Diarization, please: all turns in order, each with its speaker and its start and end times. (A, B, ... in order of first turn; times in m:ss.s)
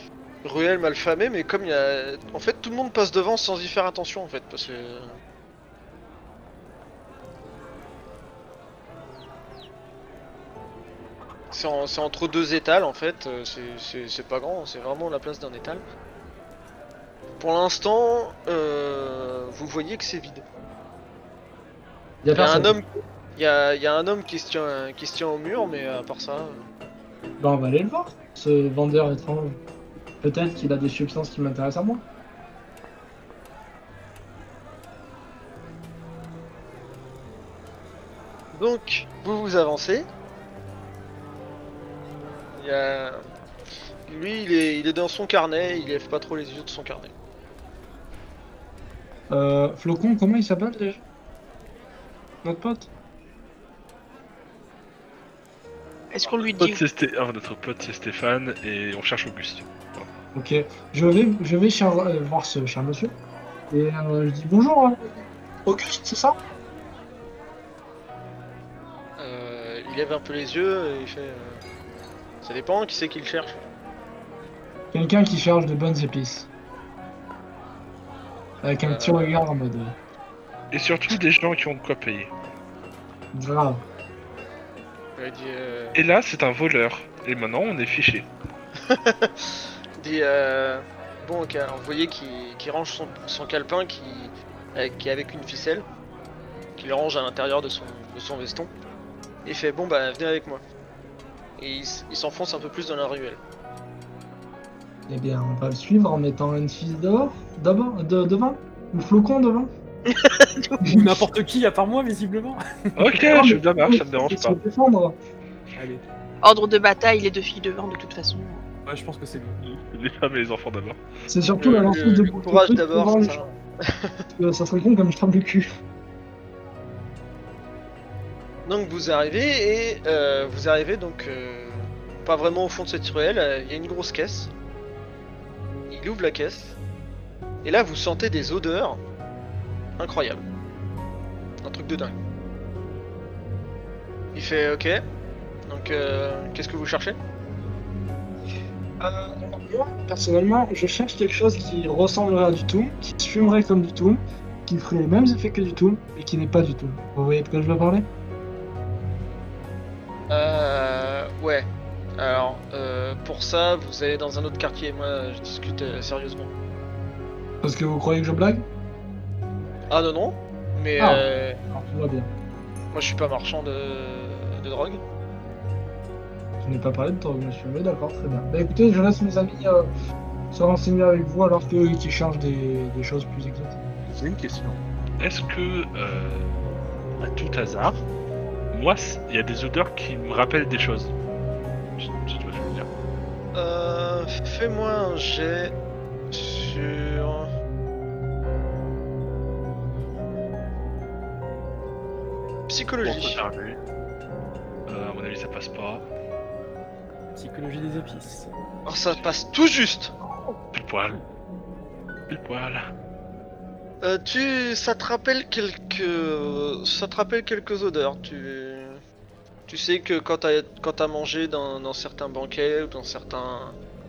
0:00.4-0:05.1 A
0:11.5-0:15.8 A
0:17.4-0:20.4 A
0:22.2-0:22.8 B
0:22.4-0:26.6 A
0:27.4-0:29.6 B
0:30.2-0:32.0 B
0:38.5-0:40.1 A
0:42.6-0:43.2 A
0:44.1-0:47.1 A
0:49.3-0:51.0 B
0:52.4-0:52.9 B
0:56.1-0:56.8 C
0:56.6-1:00.1 D
1:00.3-1:03.2 B
1:03.7-1:05.0 B
1:05.7-1:06.4 B
1:09.2-1:11.6 A
1:12.4-1:13.6 A
1:14.9-1:16.5 B
1:18.6-1:20.0 B
1:18.8-1:19.4 A
1:20.7-1:22.3 D
1:23.3-1:23.8 B
1:25.2-1:26.0 A
1:26.0-1:28.3 D
1:28.9-1:35.9 A
1:36.8-1:38.7 A
1:39.4-1:40.6 A
1:41.6-1:43.4 A
1:45.1-1:49.7 B
1:50.1-1:50.8 C
1:50.8-1:51.2 B
1:50.9-1:53.2 E
1:53.0-1:54.6 D
1:53.3-1:55.2 B
1:55.8-1:56.0 E
1:56.4-1:58.6 C
1:58.9-1:59.6 E
1:59.6-2:01.0 D
2:01.3-2:03.4 B
2:01.6-2:04.2 A
2:04.4-2:05.7 B
2:08.6-2:14.5 A
2:15.9-2:16.8 A
2:17.6-2:19.0 A
2:20.0-2:20.4 A
2:21.6-2:22.2 A
2:24.4-2:25.0 A
2:25.7-2:27.2 A
2:29.0-2:38.1 B
2:40.3-2:46.5 A
2:47.6-2:48.7 B
2:49.9-2:51.6 A
2:51.0-2:52.3 B
2:52.9-2:55.0 A
2:56.6-2:59.9 B
3:00.5-3:03.8 B
3:04.1-3:06.5 D
3:07.2-3:08.0 D
3:08.7-3:11.1 D
3:12.0-3:12.9 D
3:13.6-3:15.7 A
3:16.3-3:17.5 A
3:22.7-3:23.4 A
3:23.0-3:23.8 D
3:24.9-3:26.0 D
3:27.4-3:28.5 E
3:28.9-3:30.1 A
3:30.7-3:31.2 D
3:32.3-3:32.8 D
3:34.0-3:39.0 A
3:39.7-3:43.8 A